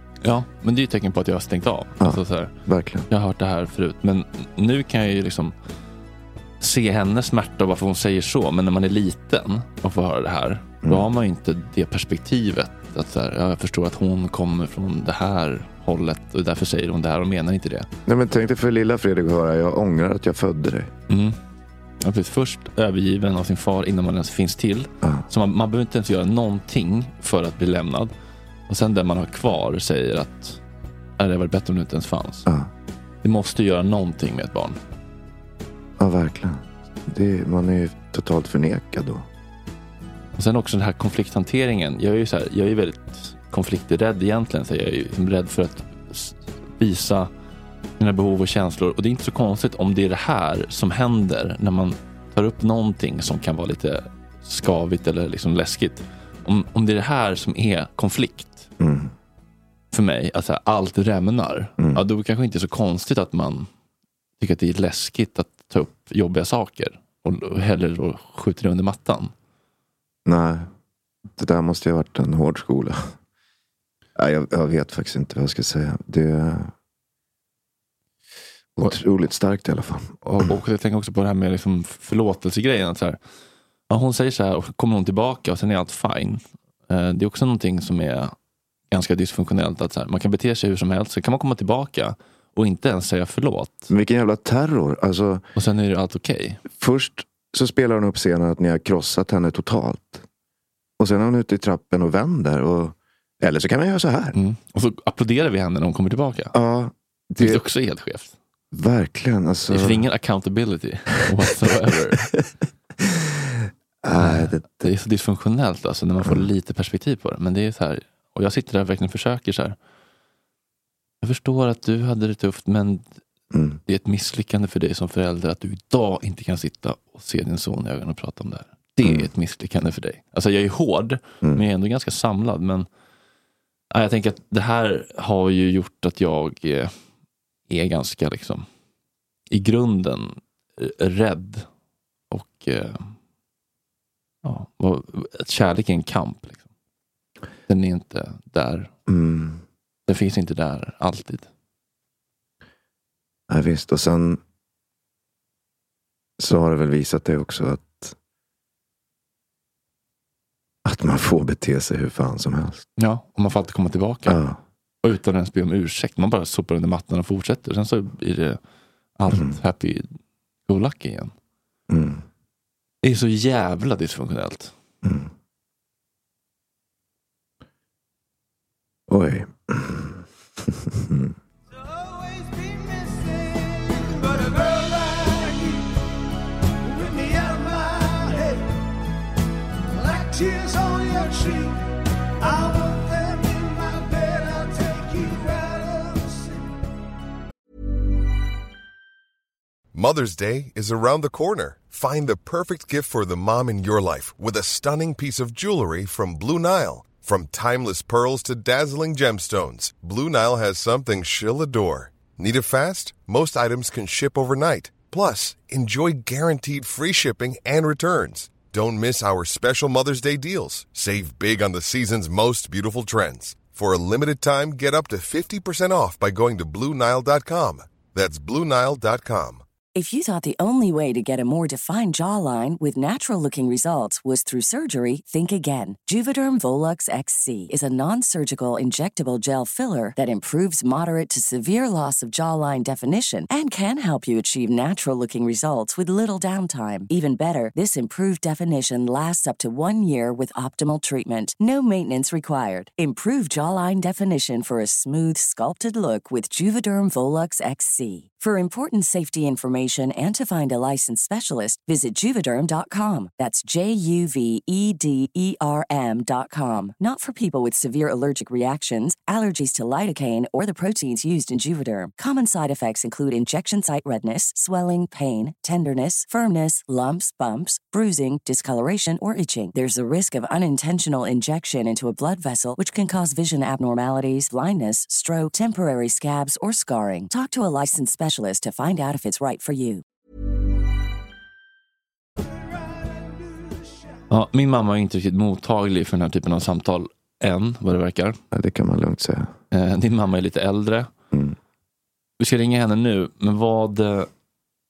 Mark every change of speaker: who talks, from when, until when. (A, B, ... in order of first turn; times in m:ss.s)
0:00.2-0:02.5 A
0:02.0-0:03.1 B
0:03.1-0:05.5 A
0:06.6-0:17.9 A
0:18.1-0:20.9 B
0:21.1-0:21.4 A
0:22.0-0:28.1 A
0:28.7-0:30.6 A
0:31.2-0:32.5 A
0:33.2-0:34.8 A
0:36.0-0:39.2 B
0:40.4-0:47.3 A
0:48.0-0:58.7 A
0:58.8-0:59.1 B
0:59.9-1:03.7 A
1:04.4-1:09.3 A
1:10.2-1:10.7 B
1:11.4-1:13.0 B
1:14.2-1:16.7 B
1:18.8-1:20.2 B
1:20.2-1:23.2 A
1:23.9-1:28.4 A
1:28.9-1:33.9 A
1:33.9-1:35.4 B
1:35.6-1:36.6 A
1:36.8-1:40.2 B
1:41.0-1:44.4 B
1:44.3-1:46.5 A
1:46.5-1:47.6 B
1:47.4-1:48.3 A
1:48.7-1:50.1 B
1:49.7-1:52.2 A
1:54.0-1:54.9 B
1:54.2-1:59.8 A
2:01.2-2:03.1 A
2:03.5-2:03.8 B
2:03.9-2:12.9 A
2:13.9-2:17.0 A
2:17.7-2:18.7 A
2:19.5-2:21.7 A
2:22.3-2:23.1 A
2:24.4-2:26.6 A
2:27.7-2:28.9 A
2:29.1-2:29.6 B
2:30.1-2:31.5 A
2:33.5-2:34.4 B
2:36.4-2:38.2 B
2:40.8-2:42.8 B
2:43.0-2:44.4 A
2:44.3-2:44.6 B
2:45.0-2:48.6 A
2:49.2-2:50.1 A
2:50.7-2:51.3 A
2:51.9-2:52.2 B
2:53.0-2:54.7 A
2:55.0-2:55.3 B
2:59.1-3:00.2 B
3:00.9-3:01.3 B
3:02.9-3:05.7 C
3:07.0-3:08.5 C
3:10.0-3:11.6 C
3:12.4-3:16.4 C
3:19.9-3:49.6 D
3:50.0-4:50.0 E
4:54.3-4:58.4 A
4:58.5-4:59.5 B
4:59.7-5:01.1 A
5:02.4-5:04.3 A